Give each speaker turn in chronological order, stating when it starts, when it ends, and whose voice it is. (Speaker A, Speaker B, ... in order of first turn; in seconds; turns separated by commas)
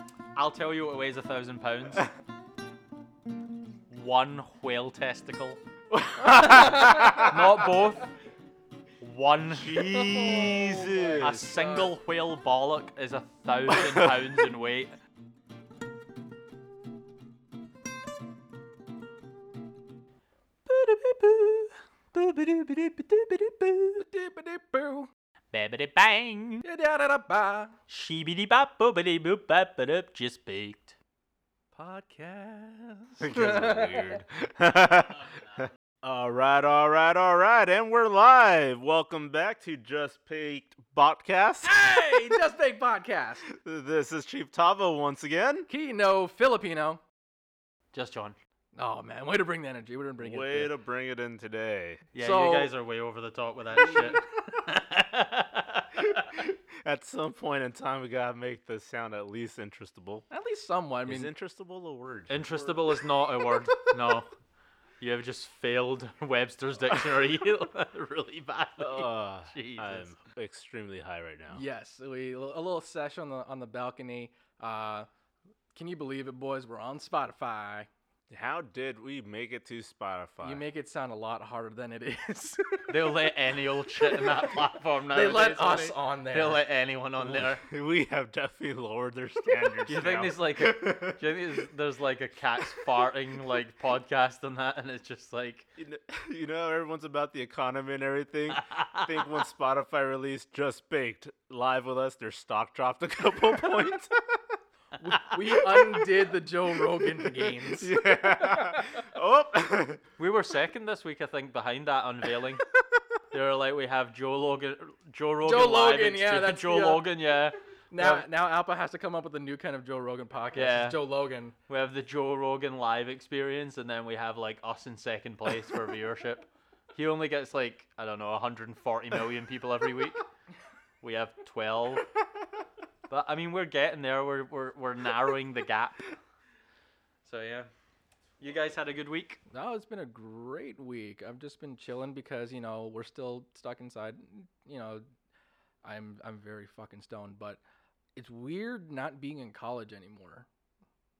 Speaker A: 0.3-2.1, Speaker A: 3.9-5.6, Speaker A: 6.1-8.1, Speaker B: 6.3-7.4, Speaker C: 6.3-7.2, Speaker A: 9.0-10.4, Speaker B: 9.5-11.4, Speaker C: 10.0-11.9, Speaker A: 11.2-14.9, Speaker B: 13.7-14.2, Speaker A: 20.6-24.0, Speaker C: 24.0-25.1, Speaker A: 25.5-26.6, Speaker C: 26.6-27.8, Speaker A: 27.9-30.9, Speaker C: 31.7-34.2, Speaker B: 33.2-42.1, Speaker C: 41.6-43.5, Speaker B: 43.5-45.7, Speaker C: 45.7-47.0, Speaker A: 47.9-48.4, Speaker C: 48.7-50.7, Speaker B: 50.2-52.0, Speaker A: 52.1-56.4, Speaker C: 52.2-52.7, Speaker B: 56.0-60.2, Speaker C: 60.3-61.3, Speaker B: 61.0-62.5, Speaker A: 62.3-64.3, Speaker A: 65.0-70.1, Speaker B: 68.8-71.6, Speaker C: 71.5-75.1, Speaker C: 75.7-77.9, Speaker B: 78.3-80.7, Speaker C: 80.4-82.9, Speaker A: 82.9-87.6, Speaker C: 84.0-86.6, Speaker B: 87.2-91.6, Speaker A: 89.8-95.7, Speaker B: 95.8-104.4, Speaker A: 98.6-99.0, Speaker C: 105.0-107.9, Speaker B: 105.3-106.1, Speaker B: 106.9-110.0, Speaker C: 108.5-108.8, Speaker A: 110.2-112.6, Speaker A: 113.3-118.2, Speaker C: 115.4-117.1, Speaker C: 117.9-121.5, Speaker A: 120.5-121.0, Speaker A: 121.7-130.2, Speaker A: 131.0-132.1, Speaker A: 133.1-136.1, Speaker A: 137.2-137.7, Speaker A: 138.4-139.4, Speaker C: 139.5-145.0, Speaker C: 145.8-147.6, Speaker C: 148.2-150.5